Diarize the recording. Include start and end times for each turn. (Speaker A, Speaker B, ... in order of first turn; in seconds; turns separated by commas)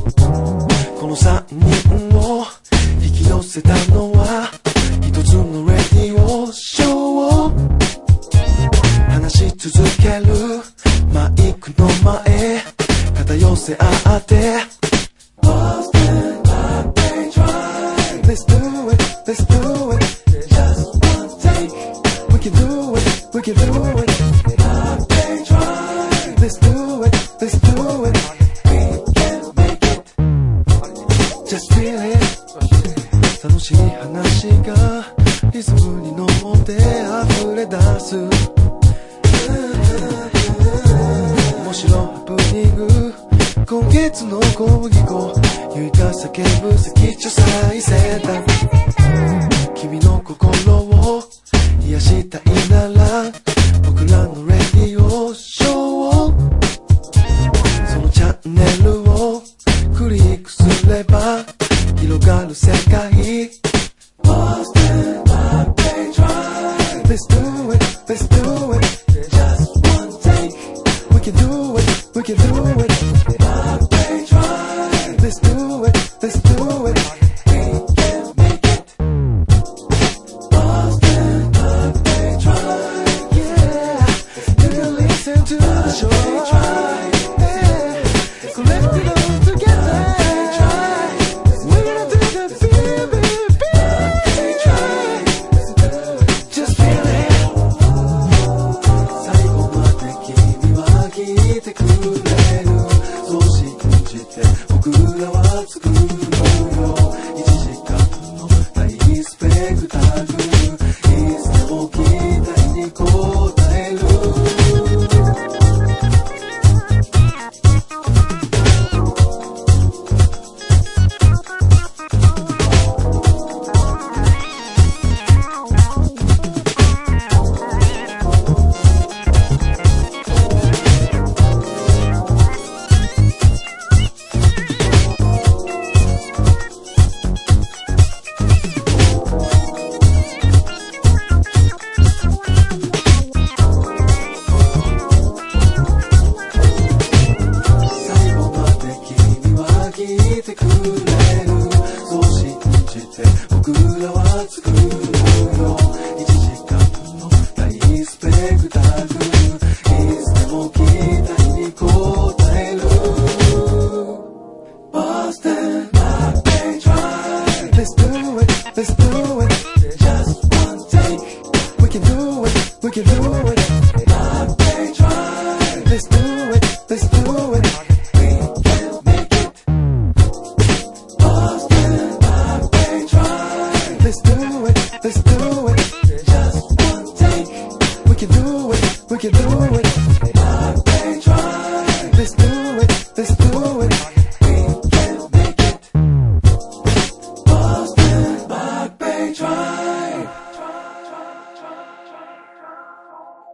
Speaker A: 0.9-7.6, Speaker A: 9.1-14.7, Speaker A: 15.4-30.1, Speaker A: 31.4-32.5, Speaker A: 33.4-38.5, Speaker A: 39.3-40.5, Speaker A: 41.1-48.5, Speaker A: 49.7-56.4, Speaker A: 57.8-63.6, Speaker A: 64.2-79.0, Speaker A: 80.5-97.7, Speaker A: 99.1-115.1, Speaker A: 147.8-164.2, Speaker A: 164.9-179.6, Speaker A: 181.2-195.9, Speaker A: 197.5-200.3